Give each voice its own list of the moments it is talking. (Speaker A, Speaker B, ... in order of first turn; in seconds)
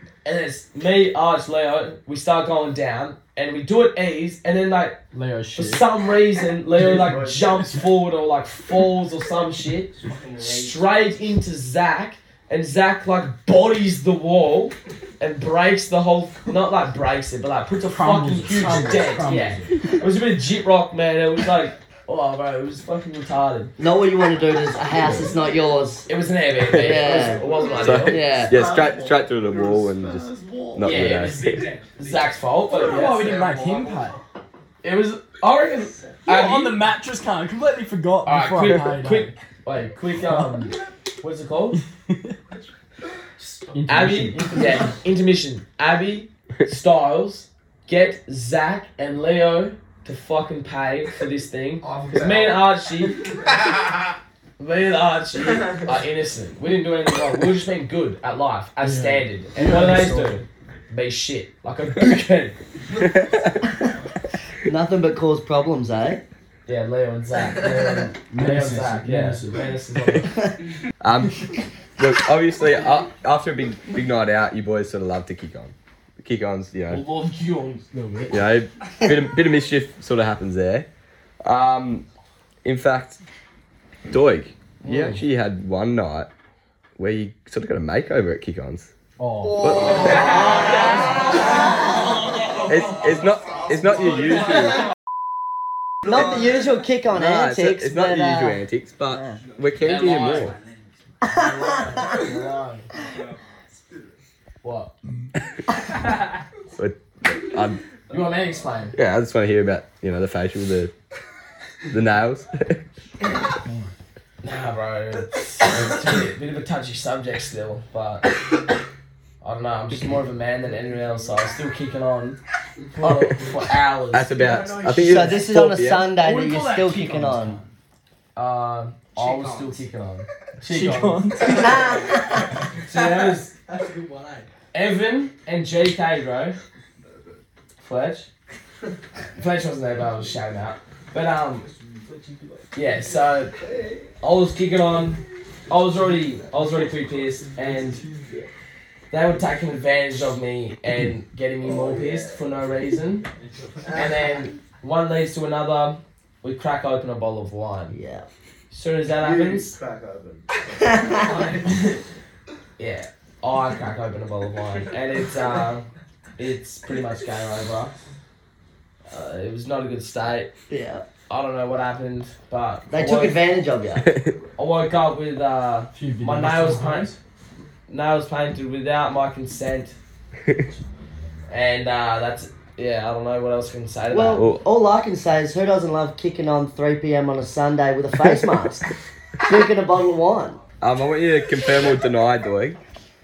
Speaker A: 0.2-5.0, 5.5-23.7, 26.1-28.5, 30.8-33.2, 34.8-36.8, 38.2-41.8, 43.9-53.5, 54.6-62.5, 66.7-70.5, 76.9-77.9, 84.8-85.2, 89.8-91.7, 92.6-92.8, 99.8-100.5, 101.3-102.9, 104.6-104.9, 108.1-109.0, 114.4-118.3, 119.4-122.4, 123.0-124.3, 128.3-131.8, 132.8-133.5, 134.7-136.6, 137.8-138.3, 139.3-141.7, 142.7-143.5, 144.2-148.0, 149.1-153.3, 153.9-158.0, 158.7-159.7, 161.2-162.0, 162.8-167.9, 169.1-170.5, 171.3-173.4, 174.6-177.1, 177.9-179.9, 181.5-184.4
Speaker B: 5.1-5.9, 17.9-19.9, 31.1-31.8, 32.7-34.2, 36.3-39.3, 40.3-40.7, 43.4-44.8, 58.8-60.4, 68.3-69.6, 77.9-78.4, 89.2-90.6, 113.6-113.9, 126.2-127.7, 130.6-131.8, 175.9-177.2
Speaker C: 9.9-10.8, 27.0-32.1, 32.7-34.1, 51.8-52.7, 89.7-92.6, 103.0-103.3, 124.4-125.0, 129.2-129.8, 131.7-132.2, 132.8-134.5, 141.6-142.8, 143.6-144.0, 147.4-148.5, 151.7-152.4, 153.6-154.0, 159.2-161.8
Speaker D: 23.8-26.1, 26.7-28.6, 64.6-66.2, 96.0-98.6, 99.1-99.4, 101.2-102.2, 125.0-127.6, 131.4-132.4, 157.9-158.3, 160.8-161.4, 170.7-171.0, 172.9-174.1, 184.1-188.9, 189.4-190.6
Speaker E: 26.7-27.0, 27.7-31.6, 63.0-63.4, 71.0-77.0, 78.3-80.9, 81.4-82.0, 82.6-83.2, 84.1-86.3, 87.0-88.9, 89.6-90.5, 92.6-94.8, 97.1-100.5, 106.8-107.8, 108.9-110.9, 111.9-112.8, 124.1-126.1, 174.1-174.3, 184.3-184.6, 190.8-192.8